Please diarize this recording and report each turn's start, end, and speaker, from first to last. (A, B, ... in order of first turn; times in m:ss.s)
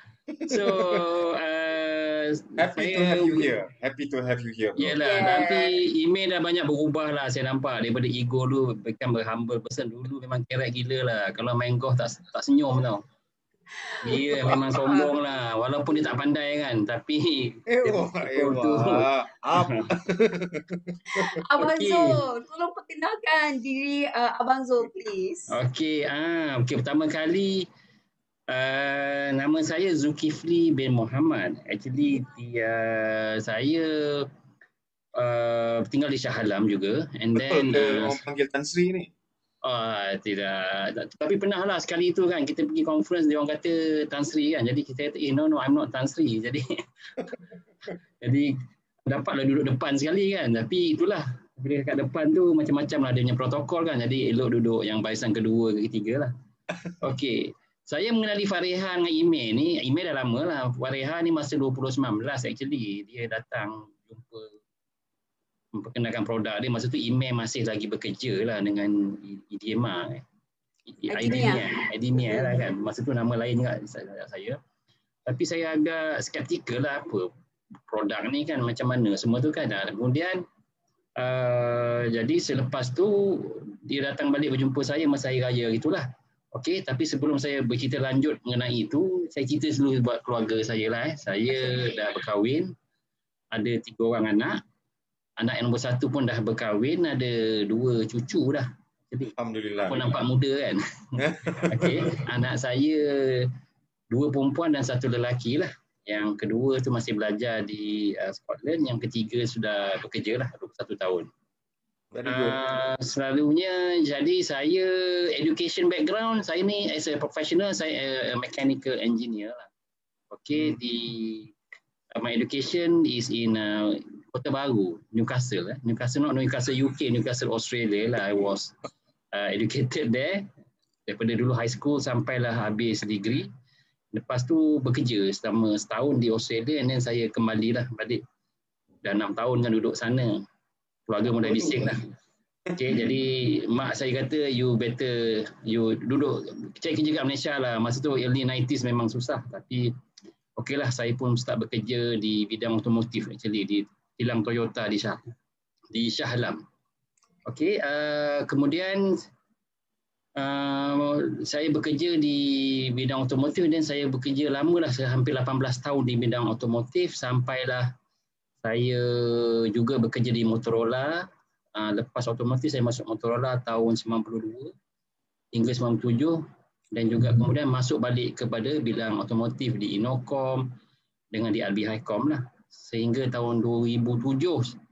0:00.3-0:01.1 A
0:00.5-0:03.6 B
0:02.6-0:05.0 A
0:04.8-0:13.0 B
0:05.0-0:05.8 C
0:13.8-0:15.1 C
0:14.0-0:19.9 B
0:17.7-0:21.4 A
0:21.1-0:25.6 C
0:21.6-0:22.2 B
0:25.5-0:27.7 B
0:28.5-0:34.3 B
0:35.2-0:38.2 B
0:37.3-0:39.1 A
0:39.6-0:46.7 B
0:48.2-0:48.5 B
0:49.1-0:56.3 B
0:57.0-1:04.5 B
1:05.7-1:10.2 B
1:10.9-1:14.6 B
1:11.1-1:12.6 C
1:15.2-1:17.3 B
1:17.9-1:20.4 B
1:21.2-1:32.7 B
1:33.5-1:34.6 B
1:35.4-1:40.8 B
1:39.4-1:40.1 A
1:41.2-1:42.3 A
1:41.7-1:43.5 B
1:44.1-1:51.3 B
1:52.1-1:52.6 A
1:52.3-1:59.7 B
2:00.3-2:01.5 B
2:02.2-2:08.7 B
2:09.3-2:10.5 B
2:11.1-2:13.5 B
2:14.1-2:18.2 B
2:19.0-2:20.4 B
2:21.1-2:22.0 B
2:21.3-2:22.0 A
2:22.7-2:23.2 A
2:22.8-2:29.9 B
2:30.6-2:35.2 B
2:35.9-2:36.6 B
2:37.4-2:39.2 B
2:40.4-2:47.9 B
2:48.6-2:54.7 B
2:55.5-2:56.4 B
2:56.9-3:00.7 B
3:01.3-3:04.7 B